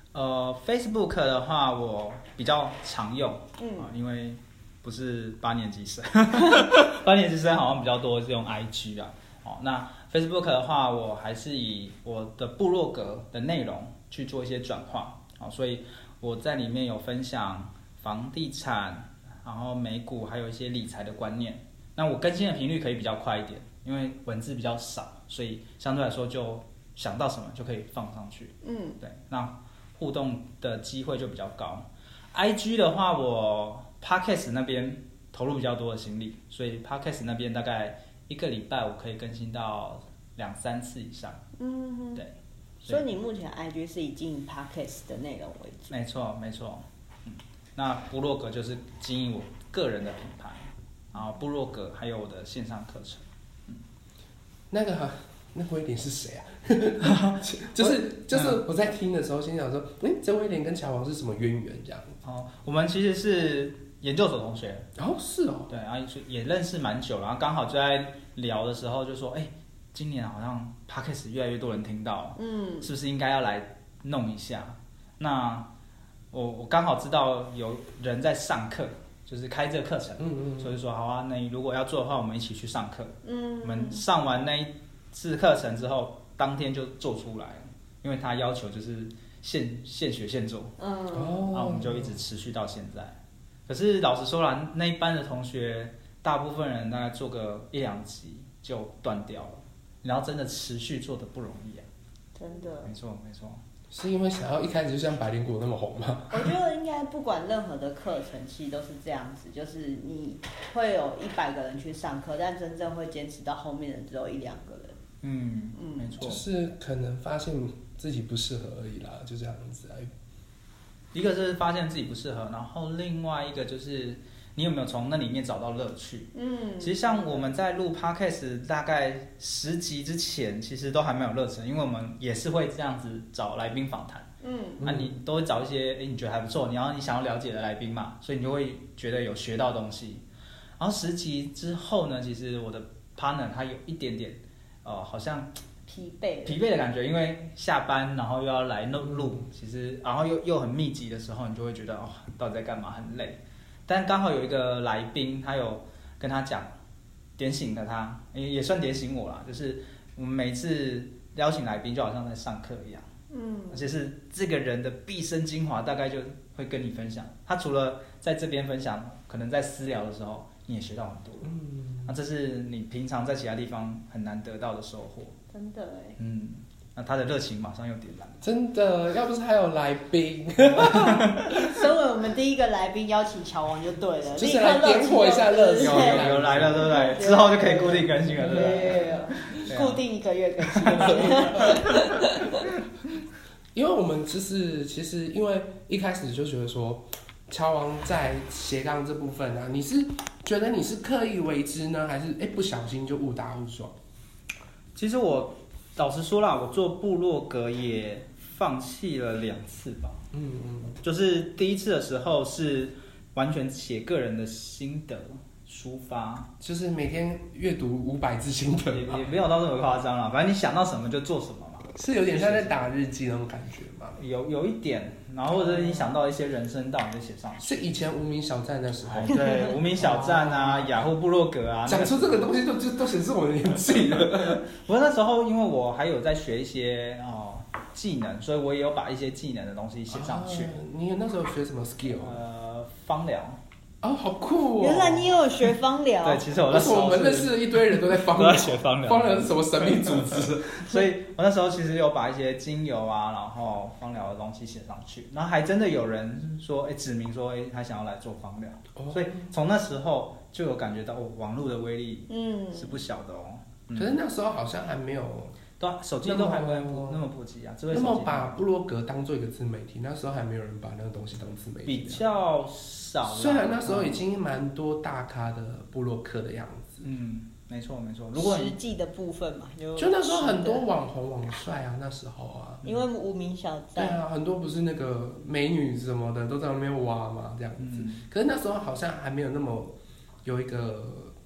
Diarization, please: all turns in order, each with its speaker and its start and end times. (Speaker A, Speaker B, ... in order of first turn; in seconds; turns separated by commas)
Speaker A: 0.1-41.4, Speaker B: 3.6-3.9, Speaker B: 28.6-29.0, Speaker B: 41.6-42.2, Speaker B: 42.8-45.9, Speaker A: 45.9-53.8, Speaker C: 54.7-62.1, Speaker A: 57.0-58.6, Speaker A: 62.2-64.9, Speaker C: 65.0-65.7, Speaker A: 65.7-75.7, Speaker B: 72.4-72.9, Speaker A: 76.3-90.7, Speaker C: 80.2-80.7, Speaker B: 83.2-84.0, Speaker B: 90.8-91.5, Speaker C: 91.1-92.1, Speaker A: 91.5-101.9, Speaker B: 102.3-102.9, Speaker A: 102.8-103.6, Speaker C: 103.9-106.5, Speaker B: 106.3-115.0, Speaker A: 115.2-116.4, Speaker B: 115.8-116.2, Speaker C: 116.2-120.1, Speaker A: 121.1-134.3, Speaker B: 126.3-127.5, Speaker B: 134.4-134.8, Speaker C: 134.8-135.1, Speaker A: 134.8-140.2, Speaker A: 140.8-145.5, Speaker B: 145.9-146.6, Speaker A: 146.4-156.7, Speaker A: 157.4-163.1, Speaker B: 163.3-163.8, Speaker A: 163.7-171.5, Speaker C: 171.4-172.1, Speaker A: 172.1-175.3, Speaker B: 175.5-176.2, Speaker A: 176.2-178.4, Speaker C: 178.4-181.5, Speaker A: 180.7-181.4, Speaker B: 181.4-192.7, Speaker C: 184.4-186.9, Speaker A: 185.8-190.0, Speaker C: 188.4-189.6, Speaker A: 190.8-192.1, Speaker C: 190.9-191.8, Speaker C: 193.7-203.9, Speaker A: 204.9-210.2, Speaker C: 210.3-211.0, Speaker A: 211.0-216.5, Speaker C: 216.6-219.3, Speaker A: 218.9-222.8, Speaker C: 221.9-224.2, Speaker A: 224.2-227.6, Speaker C: 225.5-226.1, Speaker C: 227.6-231.0, Speaker A: 229.1-232.5, Speaker C: 231.8-234.6, Speaker A: 234.6-240.8, Speaker C: 240.1-242.4, Speaker A: 242.1-243.6, Speaker C: 244.0-245.4, Speaker B: 244.8-246.5, Speaker A: 246.2-264.1, Speaker C: 246.6-251.0, Speaker C: 258.9-259.5, Speaker B: 262.3-263.0, Speaker C: 263.9-265.6, Speaker A: 265.8-268.5, Speaker C: 266.2-267.2, Speaker C: 267.9-272.2, Speaker A: 271.9-274.2, Speaker C: 273.2-277.0, Speaker A: 277.0-278.7, Speaker B: 278.3-280.9, Speaker C: 279.9-282.8, Speaker B: 282.8-284.2, Speaker C: 283.9-291.3, Speaker A: 287.8-288.2